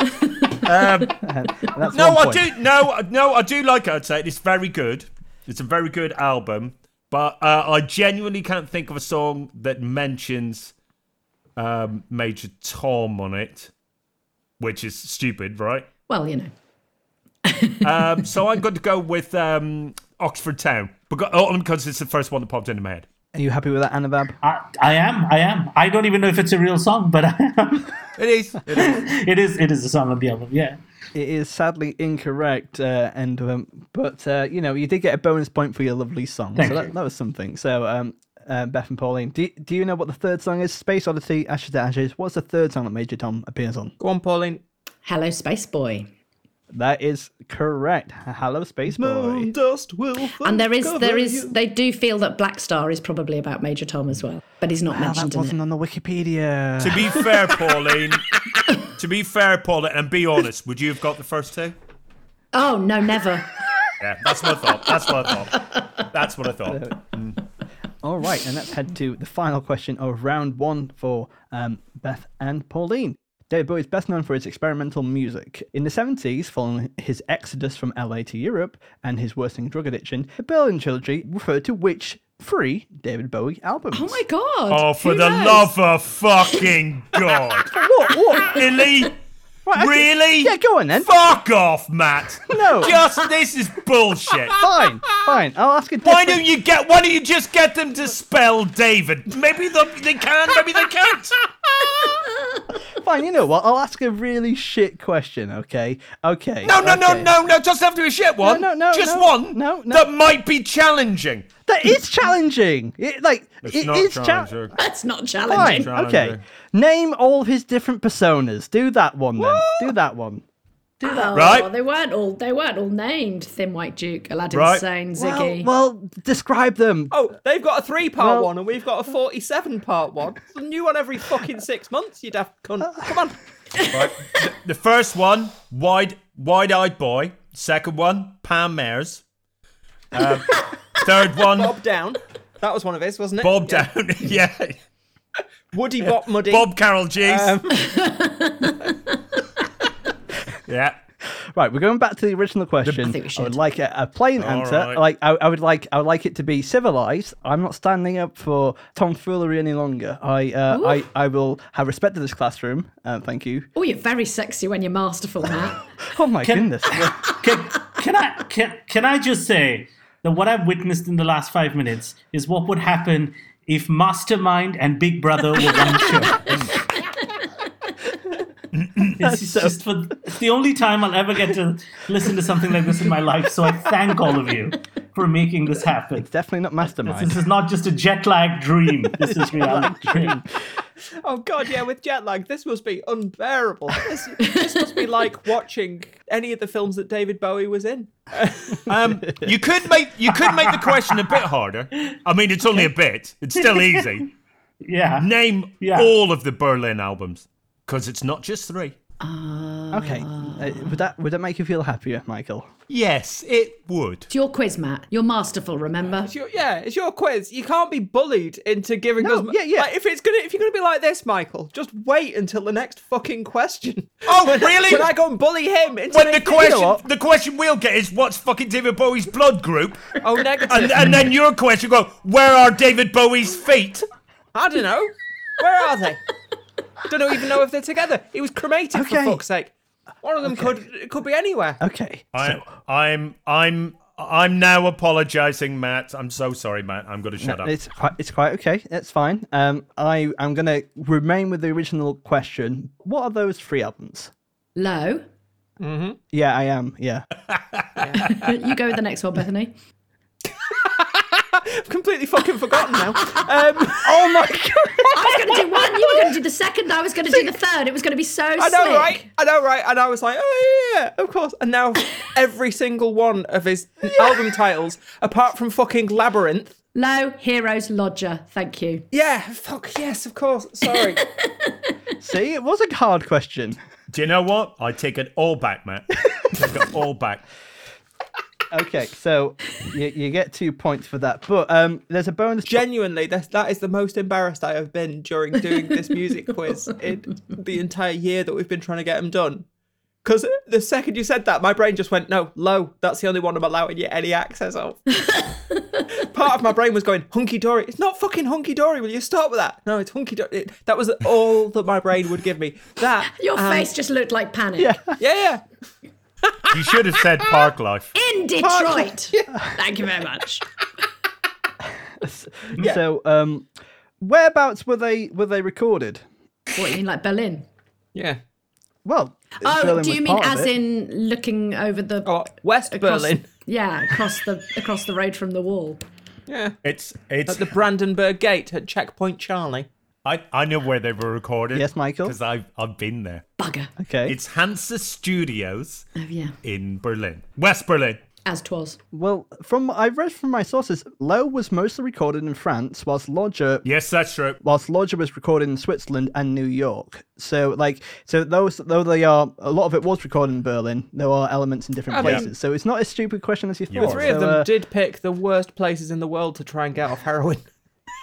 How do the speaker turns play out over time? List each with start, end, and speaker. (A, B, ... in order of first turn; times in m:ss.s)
0:00.4-0:01.2 A
0:01.2-0:02.5 B
0:01.8-0:10.7 A
0:11.6-0:13.7 A
0:14.6-0:15.9 A
0:16.1-0:16.5 C
0:17.4-0:18.1 C
0:17.8-0:23.1 A
0:23.3-0:24.4 B
0:24.4-0:27.9 D
0:28.2-0:29.0 A
0:28.7-0:30.8 D
0:31.1-0:44.0 B
0:36.6-0:36.9 D
0:44.0-0:44.6 E
0:45.0-0:46.1 C
0:46.7-0:49.5 B
0:48.9-0:51.5 E
0:50.4-0:55.6 C
0:54.9-0:57.3 B
0:56.8-0:58.3 A
0:58.8-1:01.8 A
1:02.5-1:03.6 C
1:04.0-1:07.4 A
1:06.7-1:07.0 B
1:08.0-1:24.2 B
1:23.9-1:25.7 C
1:24.7-1:27.8 A
1:27.7-1:28.6 B
1:28.4-1:29.2 A
1:29.7-1:31.2 B
1:29.8-1:34.6 A
1:32.5-1:33.0 B
1:34.6-1:36.4 B
1:36.0-1:42.0 A
1:43.0-1:47.3 B
1:46.6-1:51.5 A
1:48.4-1:50.0 B
1:51.7-1:54.5 B
1:53.6-1:54.7 A
1:54.8-1:55.9 C
1:55.5-2:00.4 B
1:55.5-1:56.4 A
1:59.4-2:00.0 E
2:01.0-2:05.7 C
2:01.3-2:01.7 A
2:04.5-2:04.8 A
2:05.2-2:07.2 B
2:07.1-2:13.4 E
2:08.2-2:08.5 B
2:13.9-2:19.2 A
2:20.1-2:21.8 A
2:21.5-2:23.9 E
2:23.4-2:24.8 A
2:25.7-2:27.9 E
2:26.0-2:27.6 A
2:27.8-2:28.8 C
2:30.7-2:31.0 A
2:31.6-2:43.7 B
2:32.8-2:33.6 C
2:34.4-2:35.0 A
2:40.7-2:41.1 C
2:43.8-2:45.8 C
2:46.1-2:47.2 B
2:46.4-2:56.7 D
2:56.4-2:56.7 A
2:59.2-3:06.3 D
2:59.2-2:59.8 B
3:06.2-3:07.4 B
3:07.0-3:10.4 D
3:09.2-3:10.5 B
3:11.2-3:18.9 E
3:14.5-3:14.9 C
3:18.9-3:24.3 A
3:19.2-3:19.5 B
3:23.6-3:24.2 D
3:24.8-3:26.1 D
3:25.2-3:29.0 A
3:29.2-3:31.0 C
3:29.9-3:32.7 B
3:32.9-3:34.3 A
3:34.3-3:36.3 C
3:36.2-3:46.8 E
3:39.2-3:39.9 B
3:44.3-3:45.1 A
3:46.1-3:54.0 A
3:46.5-3:47.0 B
3:50.2-3:51.1 E
3:54.5-3:56.2 E
3:57.1-4:01.8 E
3:58.9-3:59.4 B
4:00.4-4:00.8 B
4:01.8-4:02.6 B
4:02.3-4:07.7 A
4:07.4-4:14.3 B
4:14.8-4:15.2 C
4:15.8-4:16.2 E
4:16.3-4:17.3 B
4:17.5-4:18.3 A
4:18.0-4:18.5 E
4:18.3-4:19.7 C
4:20.6-4:26.2 E
4:23.9-4:25.3 B
4:25.1-4:29.2 C
4:28.6-4:36.7 E
4:34.1-4:34.4 B
4:37.0-4:39.0 C
4:39.1-4:41.2 E
4:41.0-4:41.9 C
4:42.2-4:43.8 B
4:44.1-4:47.4 A
4:48.7-4:52.8 B
4:52.7-4:59.7 E
5:00.2-5:05.0 E
5:05.2-5:06.1 C
5:06.2-5:13.9 E
5:13.3-5:15.0 C
5:14.8-5:15.2 B
5:15.2-5:15.6 E
5:16.7-5:18.1 A
5:18.2-5:20.7 C
5:18.6-5:19.5 E
5:22.2-5:23.7 B
5:24.2-5:26.2 B
5:26.8-5:27.6 C
5:28.2-5:28.4 E
5:29.0-5:30.7 B
5:29.6-5:36.0 C
5:32.2-5:33.5 E
5:36.5-5:36.8 E
5:36.8-5:37.7 A
5:37.5-5:39.9 E
5:40.2-5:43.4 A
5:41.7-5:42.4 B
5:43.6-5:43.9 C
5:44.0-5:44.4 B
5:44.3-5:46.1 A
5:46.2-5:46.6 C
5:46.6-5:48.2 A
5:48.4-5:49.0 C
5:49.1-5:53.9 B
5:53.8-5:54.6 A
5:54.6-6:04.7 B
6:02.1-6:02.5 E
6:02.2-6:02.4 A
6:03.9-6:04.4 A
6:04.0-6:07.6 E